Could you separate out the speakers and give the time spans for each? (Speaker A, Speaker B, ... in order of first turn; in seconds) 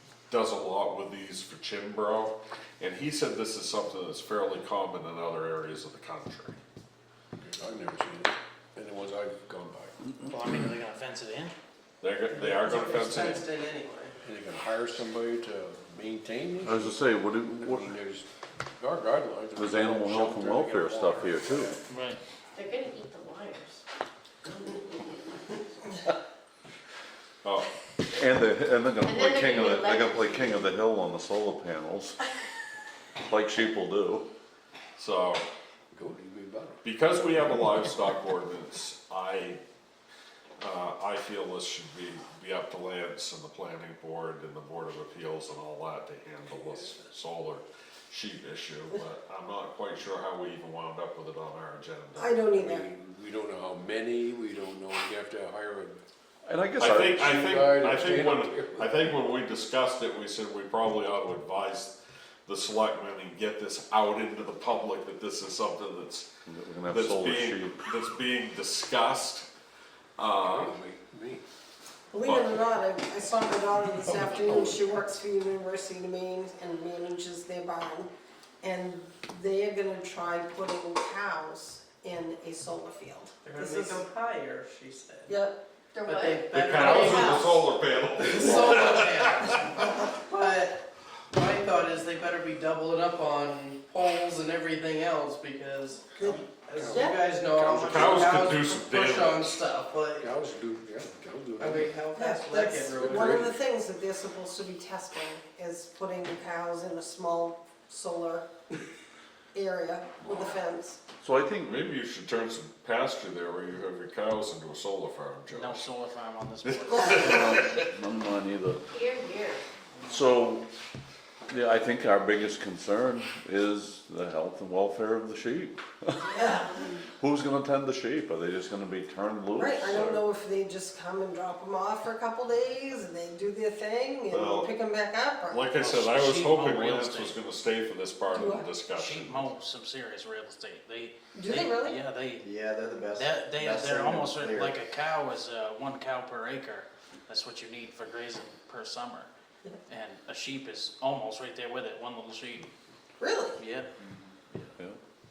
Speaker A: 0.3-6.6, 12.0-13.4, 35.0-35.4, 36.8-39.6, 40.6-52.4, 56.8-66.3, 66.9-69.5, 70.2-70.8, 72.2-72.6, 86.5-89.8, 97.8-99.6, 111.6-115.9, 116.7-117.7, 134.3-134.7, 135.5-139.5
Speaker B: 7.4-10.1, 14.2-17.0, 17.6-21.8, 35.9-37.4, 52.5-56.0, 57.1-59.1, 70.4-71.4, 74.0-75.1, 96.7-98.7, 100.2-102.0, 103.0-103.4
Speaker C: 10.2-11.6, 21.9-22.2, 115.5-117.6, 135.8-137.4, 139.0-142.5, 143.2-149.3, 149.9-152.7, 153.6-153.9
Speaker D: 12.3-14.1, 83.4-85.4, 86.0-89.6, 90.2-100.3, 101.6-103.5
Speaker E: 16.6-18.0, 19.6-21.8, 28.1-32.2, 33.2-34.3, 56.4-57.3, 66.5-67.8, 111.2-111.8, 117.0-118.8, 120.1-120.7, 121.5-126.4, 127.2-130.2
Speaker F: 22.6-23.8, 24.4-25.5, 29.0-30.6, 85.9-87.5, 96.9-97.2, 118.9-119.6
Speaker G: 52.1-52.9, 72.1-78.1, 78.6-84.1, 85.3-85.6, 96.2-96.5, 102.2-108.5, 109.5-111.0, 126.3-126.7, 129.6-135.7, 138.3-138.8, 141.3-142.0, 153.2-153.6
Speaker H: 142.4-144.8